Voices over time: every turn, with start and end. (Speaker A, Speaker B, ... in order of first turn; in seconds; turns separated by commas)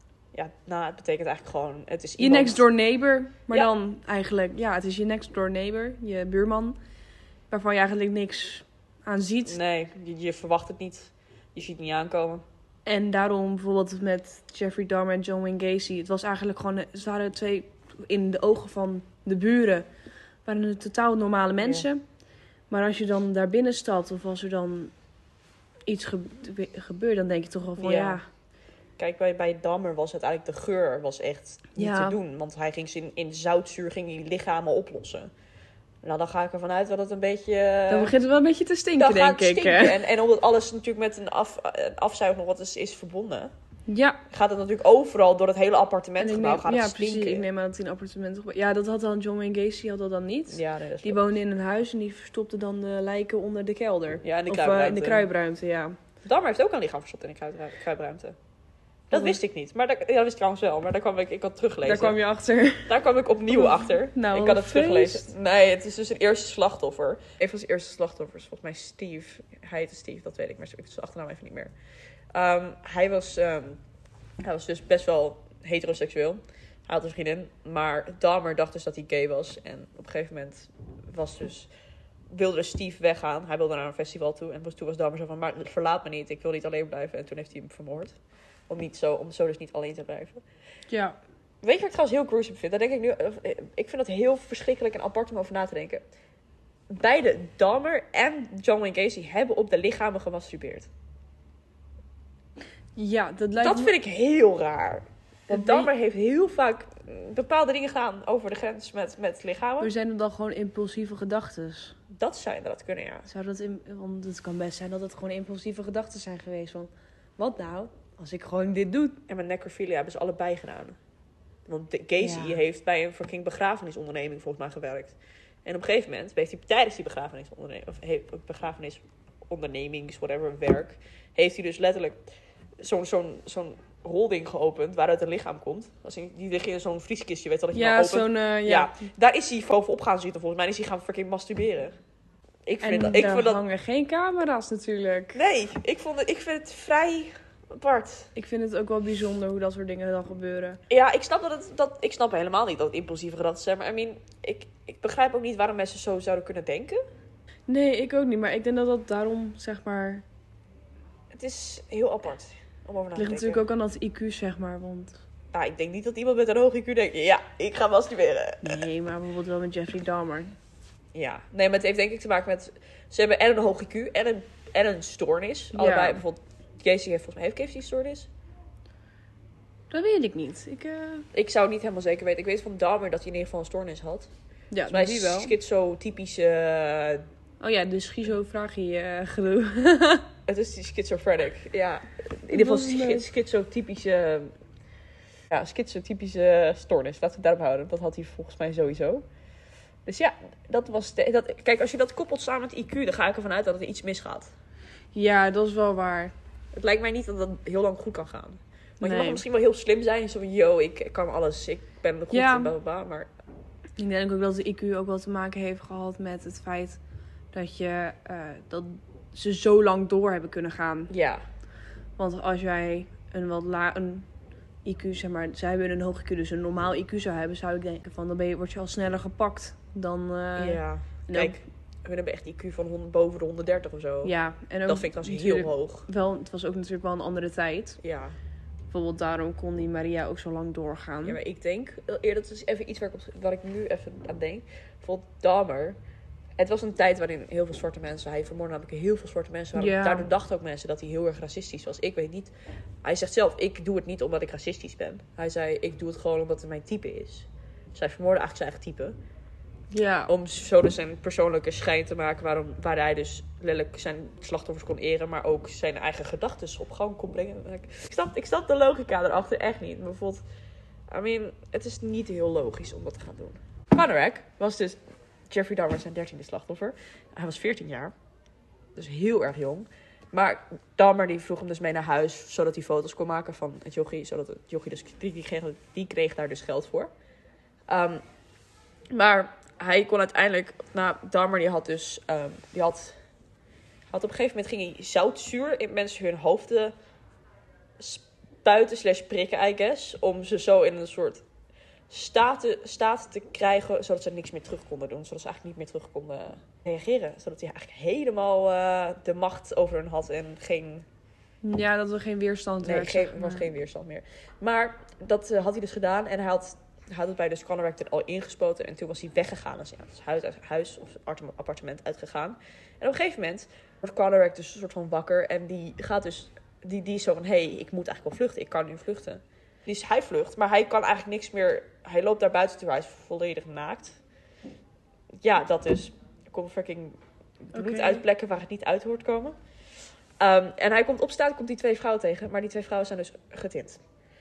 Speaker A: 0.3-2.6, Speaker B: 2.2-6.8, Speaker B: 7.5-9.6, Speaker A: 9.4-12.4, Speaker B: 12.8-19.9, Speaker B: 20.4-22.0, Speaker A: 21.6-21.9, Speaker B: 22.7-24.9, Speaker B: 25.9-28.2, Speaker A: 27.8-28.2, Speaker A: 29.0-35.3, Speaker B: 31.7-32.2, Speaker A: 36.0-38.1, Speaker B: 37.9-40.0, Speaker A: 39.0-43.5, Speaker B: 43.9-44.2, Speaker A: 44.3-47.4, Speaker B: 46.2-56.0, Speaker A: 50.5-51.2, Speaker A: 54.2-55.3, Speaker A: 56.2-58.4, Speaker A: 59.1-62.1, Speaker B: 61.8-62.9, Speaker A: 62.9-71.7, Speaker B: 63.5-65.3, Speaker A: 72.3-73.8, Speaker A: 74.4-81.7, Speaker A: 82.3-88.1, Speaker A: 88.7-90.4, Speaker B: 90.9-91.2, Speaker A: 91.6-96.0, Speaker A: 96.9-100.9, Speaker B: 103.0-103.9, Speaker A: 103.6-109.9, Speaker B: 105.5-105.9, Speaker B: 109.8-112.0, Speaker A: 112.1-113.3, Speaker B: 113.2-119.2, Speaker A: 119.3-121.0, Speaker A: 121.7-132.2, Speaker B: 122.2-122.6, Speaker A: 132.8-142.0, Speaker B: 137.7-138.9, Speaker A: 142.7-143.6, Speaker B: 142.8-145.4, Speaker A: 145.3-148.3, Speaker B: 148.3-150.8, Speaker A: 150.9-157.0, Speaker B: 157.7-160.2, Speaker A: 161.3-163.6, Speaker B: 163.2-165.2, Speaker A: 165.5-168.8, Speaker B: 168.6-170.5, Speaker A: 171.1-178.3, Speaker B: 175.7-176.2, Speaker B: 179.9-181.3, Speaker A: 181.3-184.3, Speaker B: 184.7-185.5, Speaker A: 184.9-187.2, Speaker B: 187.6-190.3, Speaker A: 190.5-194.5, Speaker B: 192.5-193.2, Speaker A: 195.5-199.2, Speaker A: 200.0-204.5, Speaker B: 205.1-206.3, Speaker A: 206.7-213.3, Speaker B: 209.0-209.4, Speaker B: 212.3-212.7, Speaker B: 214.0-217.0, Speaker B: 217.5-221.1, Speaker A: 221.1-221.4, Speaker B: 222.2-224.3, Speaker B: 224.8-231.6, Speaker A: 230.6-234.3, Speaker B: 234.2-238.0, Speaker A: 234.9-236.1, Speaker A: 238.0-238.4, Speaker B: 238.9-241.4, Speaker A: 241.2-246.0, Speaker A: 246.6-252.5, Speaker B: 249.8-250.3, Speaker A: 253.0-259.1, Speaker B: 259.9-260.3, Speaker A: 260.2-270.4, Speaker A: 271.1-278.1, Speaker A: 278.9-287.1, Speaker A: 287.9-288.2, Speaker A: 289.1-293.2, Speaker A: 294.1-296.9, Speaker A: 298.0-301.4, Speaker A: 302.1-311.1, Speaker B: 311.6-313.7, Speaker A: 312.8-334.2, Speaker A: 335.4-339.6, Speaker B: 337.7-338.2, Speaker A: 340.4-344.0